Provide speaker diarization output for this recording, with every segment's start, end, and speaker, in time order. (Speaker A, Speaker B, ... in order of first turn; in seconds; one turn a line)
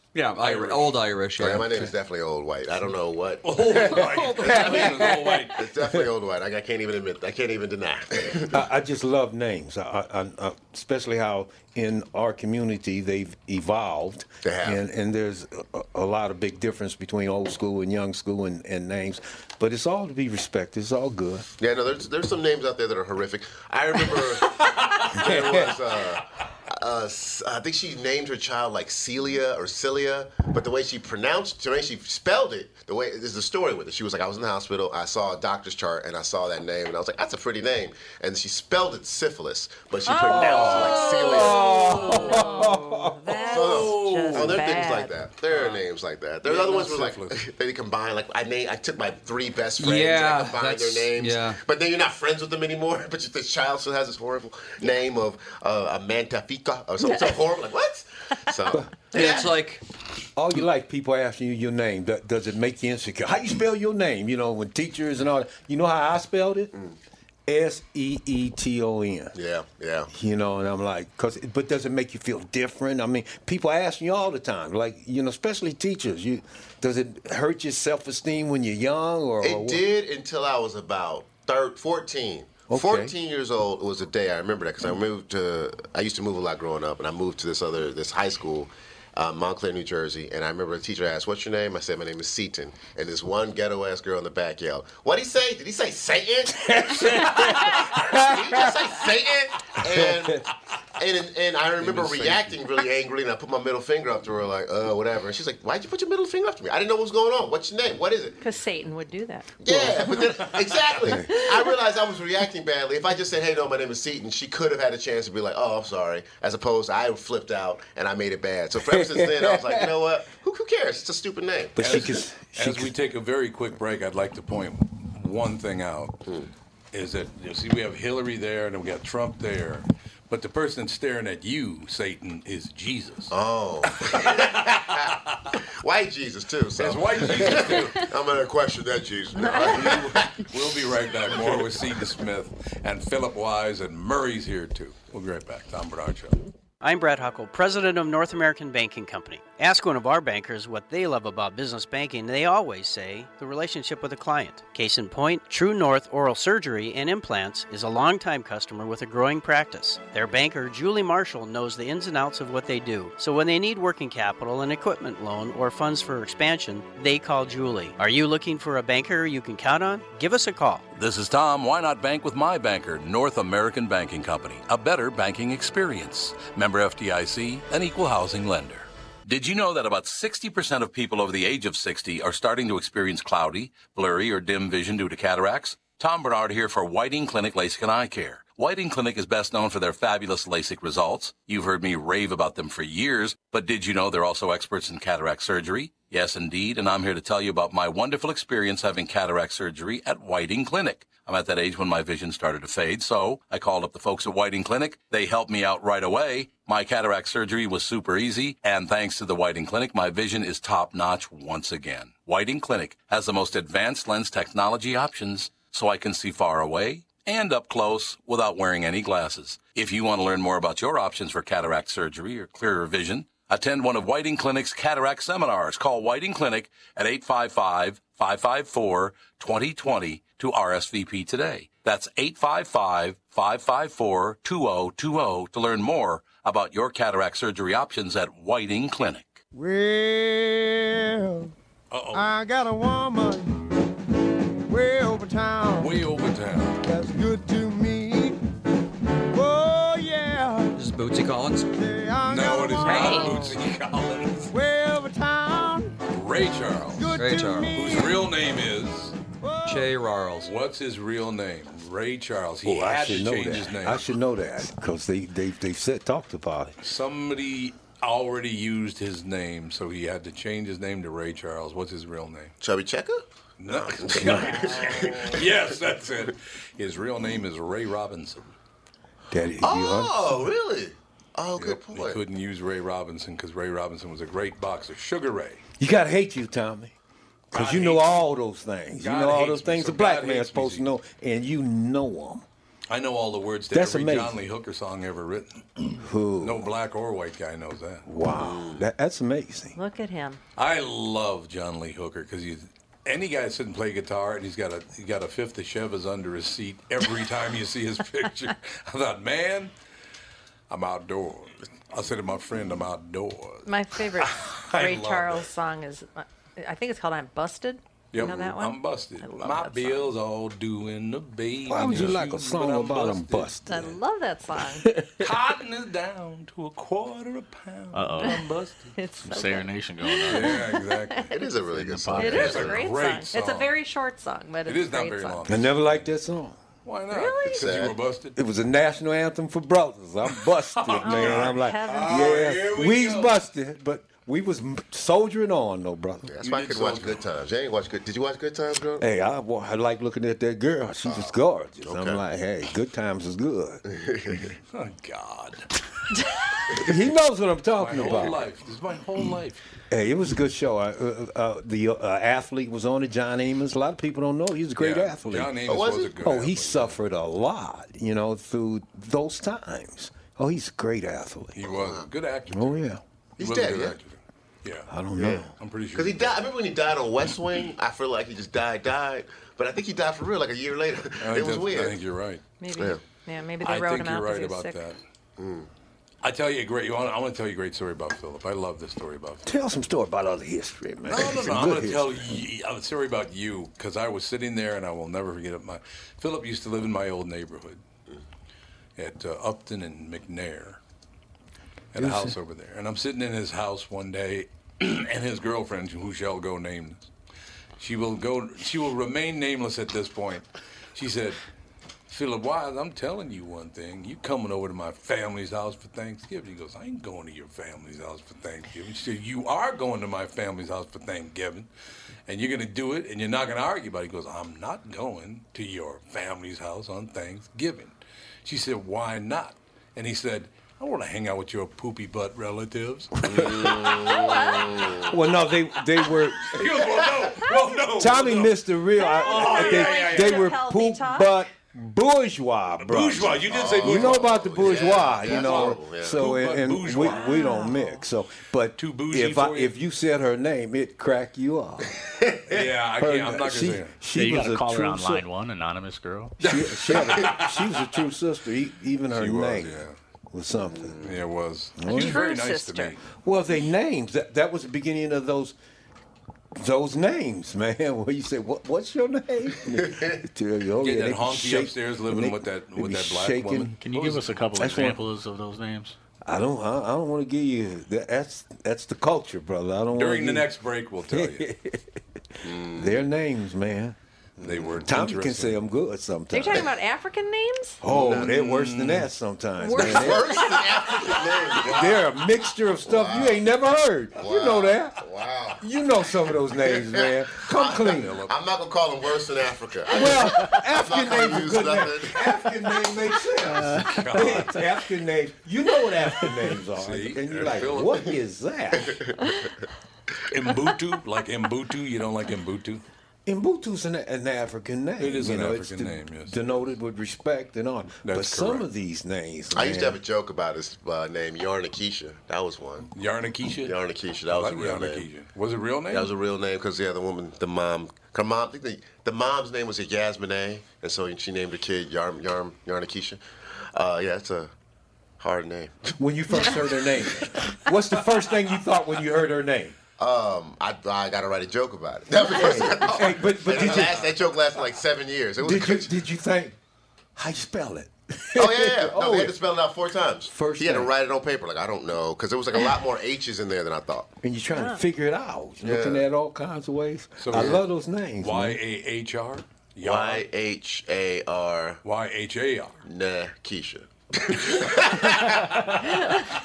Speaker A: 0.1-1.9
Speaker B: 0.4-0.9
Speaker C: 1.4-8.6
Speaker B: 3.4-5.6
Speaker D: 3.7-6.0
Speaker D: 8.5-21.5
Speaker C: 14.4-14.8
Speaker C: 21.6-41.6
Speaker D: 25.1-25.7
Speaker E: 40.1-45.2
Speaker D: 40.3-43.4
Speaker B: 40.5-41.1
Speaker B: 41.9-42.5
Speaker C: 43.5-59.5
Speaker B: 43.5-44.6
Speaker B: 46.5-47.4
Speaker A: 49.8-51.6
Speaker E: 57.0-57.4
Speaker A: 59.1-59.8
Speaker D: 60.4-66.7
Speaker D: 67.5-69.3
Speaker C: 69.3-70.1
Speaker D: 70.1-79.8
Speaker C: 79.4-100.5
Speaker D: 82.7-83.1
Speaker D: 96.6-98.8
Speaker C: 101.0-108.4
Speaker B: 101.8-102.5
Speaker E: 108.4-109.6
Speaker C: 109.6-122.0
Speaker D: 109.7-110.0
Speaker E: 111.3-111.8
Speaker D: 118.8-119.9
Speaker D: 121.8-122.9
Speaker B: 121.8-126.2
Speaker B: 126.9-133.3
Speaker C: 133.3-135.2
Speaker B: 135.0-135.5
Speaker C: 135.8-140.4
Speaker B: 136.8-138.1
Speaker E: 139.4-140.1
Speaker B: 139.4-146.4
Speaker C: 141.3-141.7
Speaker F: 146.8-170.8
Speaker B: 170.9-239.4
Speaker G: 239.5-241.5
Speaker B: 241.9-242.3
Speaker G: 242.1-243.7
Speaker G: 244.7-245.9
Speaker B: 245.8-246.8
Speaker G: 246.8-248.4
Speaker G: 249.3-250.8
Speaker A: 250.8-251.7
Speaker G: 251.7-253.3
Speaker B: 252.2-254.5
Speaker E: 252.9-253.6
Speaker G: 254.5-256.0
Speaker B: 256.1-257.2
Speaker G: 256.9-258.3
Speaker A: 257.1-257.8
Speaker B: 257.7-259.2
Speaker G: 259.4-260.1
Speaker A: 259.7-260.5
Speaker B: 260.4-264.1
Speaker D: 262.6-266.8
Speaker B: 266.8-272.5
Speaker C: 272.6-275.5
Speaker B: 273.6-278.5
Speaker D: 274.1-274.6
Speaker D: 279.3-280.4
Speaker C: 279.6-282.2
Speaker B: 281.6-285.6
Speaker D: 285.8-286.9
Speaker D: 287.5-292.4
Speaker B: 287.5-288.2
Speaker B: 289.0-290.9
Speaker B: 292.9-295.9
Speaker D: 293.7-294.4
Speaker D: 296.0-296.7
Speaker B: 296.4-298.1
Speaker D: 298.1-299.8
Speaker C: 298.3-298.8
Speaker E: 299.8-300.4
Speaker B: 300.6-309.7
Speaker B: 310.7-315.5
Speaker E: 313.7-320.1
Speaker B: 318.1-323.5
Speaker D: 321.7-324.0
Speaker E: 323.7-324.9
Speaker D: 324.8-325.3
Speaker B: 325.2-328.9
Speaker H: 327.9-328.4
Speaker E: 328.2-331.5
Speaker H: 329.2-330.7
Speaker B: 330.3-331.3
Speaker C: 331.3-332.8
Speaker H: 331.7-332.7
Speaker E: 332.1-335.7
Speaker B: 332.3-333.7
Speaker B: 334.6-336.1
Speaker D: 335.5-336.6
Speaker B: 336.9-338.4
Speaker E: 337.1-337.9
Speaker C: 337.5-338.0
Speaker D: 338.4-346.3
Speaker B: 340.8-343.4
Speaker E: 341.0-342.8
Speaker C: 346.3-349.1
Speaker B: 346.4-347.2
Speaker D: 349.0-353.8
Speaker C: 351.1-352.2
Speaker C: 353.9-354.6
Speaker B: 354.7-355.7
Speaker D: 356.8-358.4
Speaker B: 357.8-359.6
Speaker D: 359.9-365.6
Speaker B: 364.8-366.9
Speaker C: 365.6-366.2
Speaker D: 366.2-371.6
Speaker B: 371.6-372.8
Speaker C: 371.6-372.1
Speaker D: 372.5-373.0
Speaker C: 373.4-374.0
Speaker B: 373.4-374.9
Speaker D: 374.9-375.5
Speaker C: 375.2-382.0
Speaker B: 375.6-376.4
Speaker B: 381.2-382.4
Speaker E: 382.6-384.9
Speaker C: 382.7-383.0
Speaker B: 383.6-385.0
Speaker C: 385.4-385.7
Speaker B: 386.2-389.4
Speaker D: 389.4-392.4
Speaker B: 391.1-397.8
Speaker B: 399.0-400.8
Speaker B: 401.9-407.1
Speaker D: 402.0-402.4
Speaker B: 407.8-411.4
Speaker B: 412.1-421.7
Speaker B: 422.3-434.0
Speaker C: 433.3-435.1
Speaker E: 433.9-435.1
Speaker D: 435.1-436.7
Speaker B: 436.5-438.6
Speaker C: 436.9-437.2
Speaker D: 438.0-452.0
Speaker E: 439.0-441.4
Speaker B: 439.2-440.6
Speaker B: 442.8-447.3
Speaker C: 443.5-446.2
Speaker E: 447.0-448.1
Speaker B: 448.8-449.7
Speaker C: 452.1-452.4
Speaker B: 452.5-453.9
Speaker D: 452.5-455.2
Speaker H: 454.1-456.4
Speaker B: 456.4-457.7
Speaker D: 456.4-461.0
Speaker B: 459.1-460.0
Speaker C: 460.8-461.1
Speaker B: 461.0-463.0
Speaker D: 461.8-462.3
Speaker E: 461.9-463.0
Speaker D: 463.2-465.6
Speaker D: 466.6-473.8
Speaker C: 469.9-470.2
Speaker B: 470.8-474.3
Speaker H: 473.8-476.0
Speaker D: 474.6-475.0
Speaker D: 476.2-480.5
Speaker B: 479.9-481.5
Speaker D: 481.1-482.0
Speaker C: 482.4-483.0
Speaker D: 482.7-484.0
Speaker C: 484.4-484.9
Speaker B: 484.4-485.6
Speaker D: 484.8-486.7
Speaker E: 486.3-487.8
Speaker D: 487.8-490.4
Speaker B: 487.9-489.1
Speaker C: 487.9-488.3
Speaker E: 489.6-491.6
Speaker C: 489.8-492.1
Speaker D: 491.7-495.0
Speaker C: 492.9-493.4
Speaker C: 494.2-495.6
Speaker D: 495.6-498.1
Speaker C: 496.6-502.3
Speaker B: 497.9-498.3
Speaker D: 499.9-509.0
Speaker B: 503.8-504.6
Speaker B: 506.8-508.1
Speaker C: 508.8-509.1
Speaker B: 510.3-512.8
Speaker D: 513.3-520.0
Speaker B: 515.0-516.4
Speaker B: 518.0-518.6
Speaker C: 519.5-522.9
Speaker B: 523.0-523.8
Speaker C: 523.6-525.1
Speaker B: 524.3-526.1
Speaker C: 525.9-533.2
Speaker C: 533.7-534.5
Speaker C: 535.2-536.0
Speaker D: 536.0-539.8
Speaker C: 540.0-545.9
Speaker D: 542.2-544.1
Speaker D: 545.4-546.6
Speaker D: 547.2-549.4
Speaker C: 548.4-554.1
Speaker D: 550.3-550.9
Speaker D: 554.2-558.6
Speaker E: 554.5-554.8
Speaker C: 555.6-556.0
Speaker B: 557.2-557.6
Speaker C: 557.3-557.6
Speaker B: 558.2-560.3
Speaker C: 559.8-561.8
Speaker B: 561.8-562.8
Speaker C: 562.9-566.0